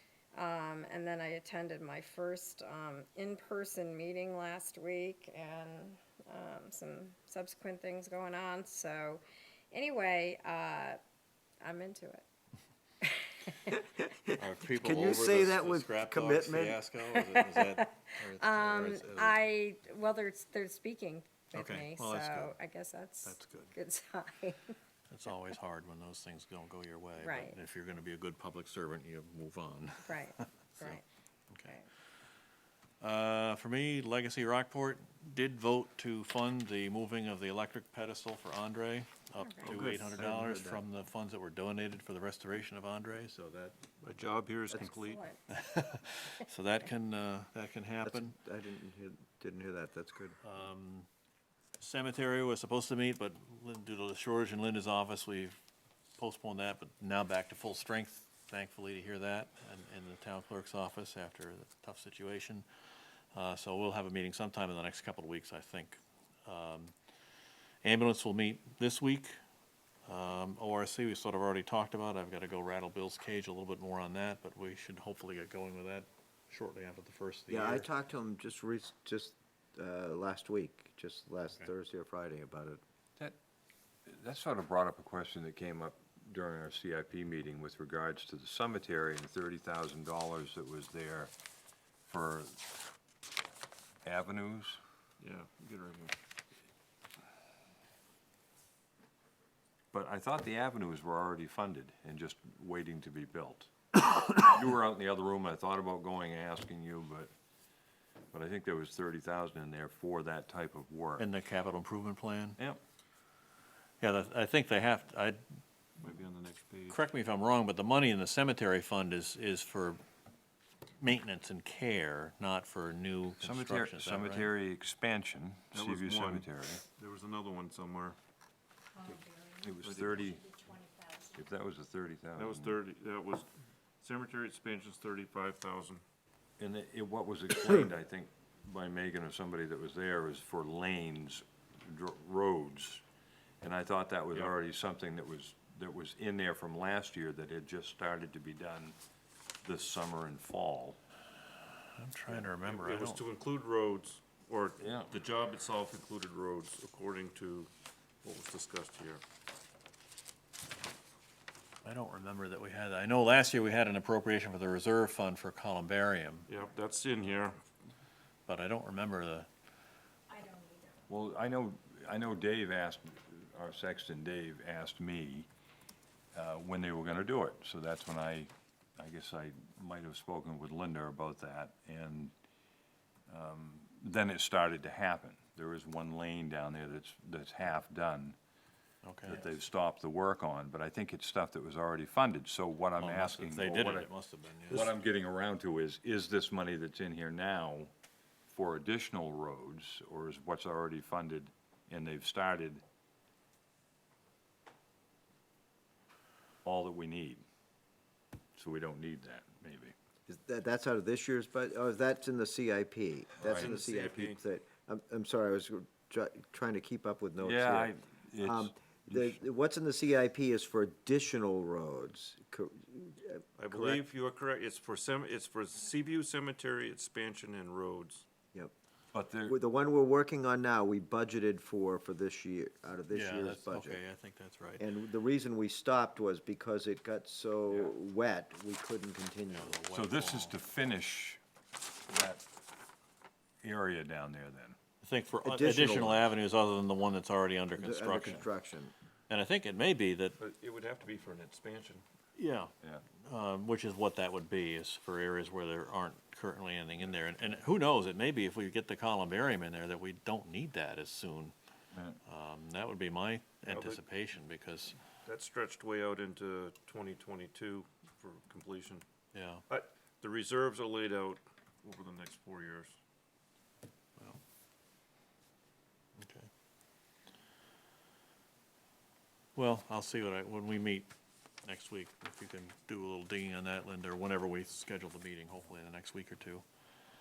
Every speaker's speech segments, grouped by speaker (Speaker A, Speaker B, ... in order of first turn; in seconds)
Speaker A: 0.3-11.0, 11.6-12.3, 13.0-13.7, 17.2-24.7, 27.2-27.6, 30.0-31.0, 31.6-31.9, 39.4-39.7, 44.7-45.4
Speaker B: 14.0-16.8, 39.7-40.8, 48.0-50.4, 77.5-82.8, 210.3-224.0, 229.4-234.0, 234.8-239.8, 245.4-246.2, 247.8-248.9
Speaker C: 14.3-19.4, 21.5-22.6, 23.2-23.7, 25.1-31.0, 33.0-43.8, 45.5-48.4, 50.4-51.1, 51.8-55.6, 56.2-62.7, 63.3-66.9, 67.8-69.4, 70.1-77.9, 111.2-112.6, 114.0-115.4, 116.9-120.0, 121.0-124.5, 152.0-153.2, 161.8-166.5, 168.5-169.5, 189.0-189.5, 193.0-194.9, 233.1-234.8, 239.5-240.6, 245.0-248.5, 249.3-250.4, 252.4-261.5, 262.2-265.0, 269.3-269.6, 276.2-276.5, 279.6-281.1, 281.6-286.6
Speaker D: 39.6-40.2, 44.0-45.2, 95.2-96.2, 116.0-117.0, 125.7-128.2, 129.8-130.4, 132.3-133.5, 134.0-136.0, 152.3-157.7, 158.2-159.2, 166.5-167.7, 213.4-214.4, 223.6-228.3, 250.4-252.0, 263.6-264.0, 265.2-269.0, 269.7-273.0
Speaker E: 84.1-91.3, 92.1-92.6, 94.0-94.8, 99.9-103.7, 104.4-107.3, 108.3-111.3, 123.4-126.8, 129.6-130.5, 131.3-132.8, 136.6-143.0, 143.6-149.0, 149.6-151.0, 154.8-155.1, 171.1-175.5, 176.3-182.3, 183.3-188.4, 189.2-194.1, 194.7-197.9, 198.5-202.8, 206.7-207.4, 208.6-209.9, 213.4-213.7, 217.4-219.4, 229.1-229.6, 239.9-241.4, 242.1-242.4, 243.6-244.8, 261.9-262.2
Speaker F: 129.0-129.8, 130.4-131.4, 170.3-170.9